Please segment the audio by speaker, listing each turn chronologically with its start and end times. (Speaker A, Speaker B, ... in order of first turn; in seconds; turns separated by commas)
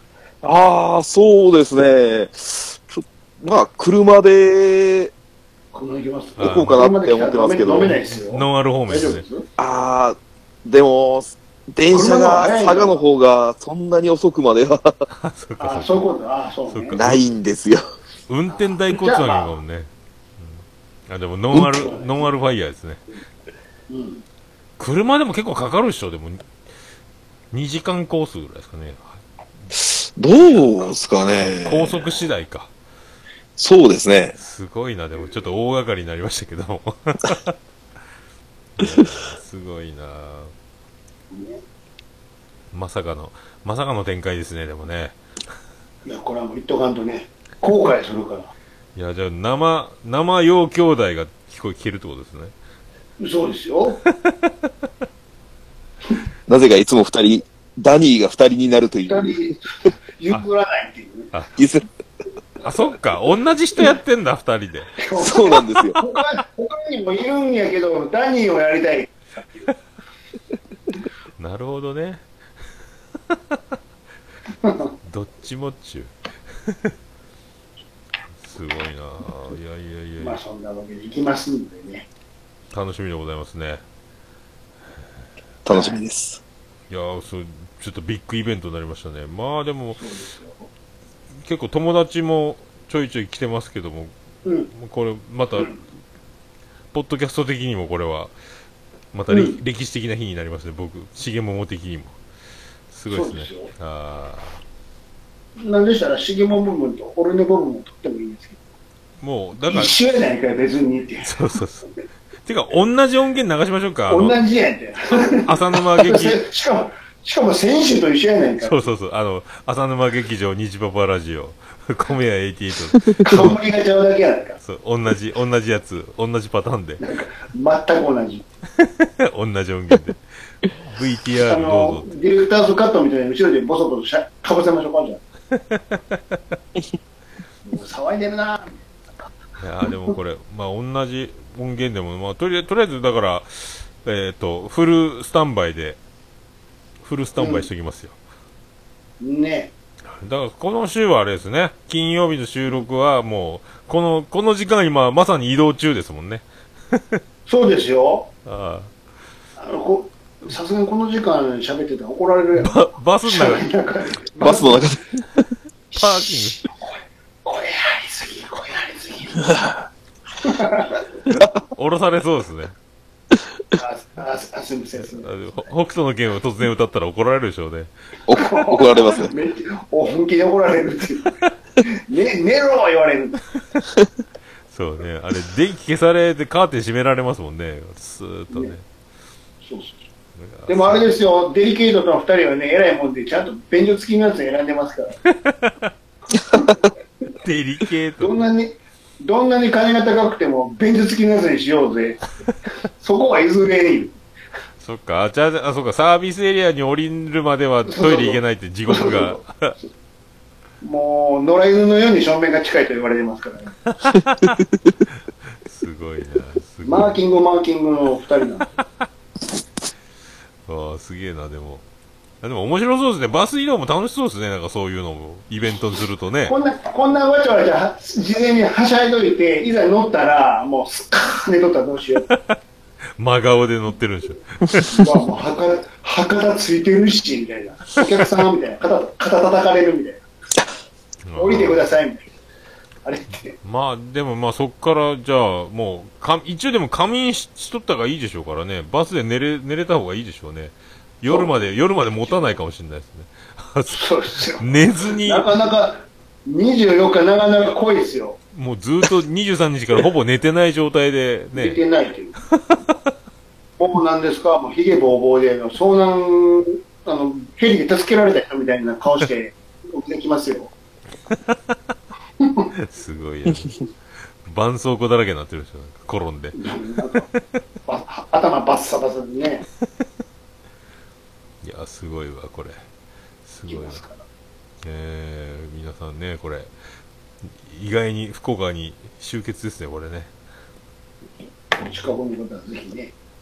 Speaker A: 0.4-5.1, Speaker B: 5.7-9.5, Speaker C: 6.4-6.9, Speaker A: 6.4-8.0, Speaker C: 8.1-9.2, Speaker A: 9.6-15.0, Speaker B: 11.9-13.0, Speaker C: 15.1-16.1, Speaker B: 15.6-17.0, Speaker C: 16.7-17.3, Speaker A: 16.9-17.8, Speaker C: 18.3-23.0, Speaker B: 18.5-19.5, Speaker B: 21.6-22.3, Speaker B: 23.9-24.2, Speaker C: 24.8-26.5, Speaker C: 27.5-29.2, Speaker A: 29.7-32.1, Speaker C: 31.4-32.7, Speaker A: 33.6-34.4, Speaker C: 34.4-37.5, Speaker C: 38.8-40.5, Speaker B: 41.3-41.6, Speaker C: 42.7-45.2, Speaker B: 46.0-48.5, Speaker C: 49.0-52.5, Speaker B: 53.2-54.0, Speaker C: 54.0-54.5, Speaker A: 56.5-59.3, Speaker B: 59.1-61.3, Speaker A: 61.6-61.9, Speaker C: 62.6-65.0, Speaker B: 65.0-69.7, Speaker A: 65.2-66.0, Speaker C: 71.4-72.2, Speaker C: 73.3-73.8, Speaker B: 74.6-74.9, Speaker C: 75.0-76.1, Speaker C: 76.7-76.9, Speaker C: 78.4-80.4, Speaker B: 80.2-82.1, Speaker C: 82.7-83.8, Speaker A: 85.7-86.4, Speaker B: 85.7-86.0, Speaker C: 86.9-90.0, Speaker B: 90.0-90.7, Speaker C: 91.4-94.1, Speaker B: 94.5-94.7, Speaker C: 94.7-95.8, Speaker C: 96.9-98.3, Speaker C: 99.1-102.2, Speaker B: 99.3-99.6, Speaker C: 102.9-104.6, Speaker B: 103.1-103.7, Speaker B: 105.6-108.6, Speaker C: 109.2-110.0, Speaker B: 109.7-111.4, Speaker C: 111.2-111.9, Speaker C: 112.5-114.4, Speaker B: 114.1-118.9, Speaker C: 115.3-116.4, Speaker C: 118.6-123.6, Speaker B: 123.2-124.6, Speaker C: 124.6-127.0, Speaker B: 127.0-128.5, Speaker C: 128.8-130.2, Speaker C: 130.9-132.1, Speaker B: 131.4-135.2, Speaker C: 135.5-136.4, Speaker B: 137.7-139.3, Speaker C: 139.6-146.0, Speaker C: 147.0-148.2, Speaker B: 147.4-147.7, Speaker B: 149.2-149.7, Speaker C: 150.1-157.2, Speaker B: 157.5-158.3, Speaker C: 158.5-158.9, Speaker B: 159.6-164.9, Speaker C: 162.6-163.6, Speaker A: 164.4-165.2, Speaker B: 165.9-166.9, Speaker C: 165.9-166.6, Speaker B: 167.4-169.6, Speaker B: 170.4-171.1, Speaker C: 171.3-172.7, Speaker B: 173.8-175.7, Speaker C: 175.1-177.9, Speaker A: 178.3-179.3, Speaker B: 178.3-183.4, Speaker C: 184.7-188.8, Speaker B: 189.6-190.0, Speaker C: 190.4-191.1, Speaker B: 190.7-195.2, Speaker C: 195.3-195.9, Speaker B: 196.5-196.8, Speaker C: 197.4-198.4, Speaker B: 198.2-202.2, Speaker B: 203.0-204.2, Speaker C: 204.8-209.8, Speaker B: 207.9-209.4, Speaker B: 210.8-213.8, Speaker C: 213.9-214.6, Speaker C: 215.7-217.2, Speaker B: 216.8-218.8, Speaker C: 220.7-221.8, Speaker C: 222.4-226.6, Speaker B: 226.5-232.3, Speaker C: 232.3-232.6, Speaker C: 233.2-235.1, Speaker B: 234.9-240.2, Speaker C: 241.2-241.8, Speaker B: 241.4-242.3, Speaker B: 243.1-243.6, Speaker C: 243.6-255.5, Speaker B: 251.3-251.6, Speaker B: 252.2-252.5, Speaker B: 253.9-254.7, Speaker B: 255.2-258.4, Speaker C: 258.5-261.8, Speaker B: 261.6-262.4, Speaker C: 262.5-262.8, Speaker B: 263.8-270.7, Speaker C: 271.3-271.6, Speaker B: 272.4-272.7, Speaker C: 272.8-273.9, Speaker C: 274.4-276.6, Speaker B: 276.5-277.3, Speaker C: 277.1-277.4, Speaker B: 277.9-279.7, Speaker C: 281.6-282.8, Speaker C: 283.4-284.0, Speaker B: 283.7-284.2, Speaker C: 284.8-286.7, Speaker C: 287.6-290.3, Speaker B: 291.4-293.1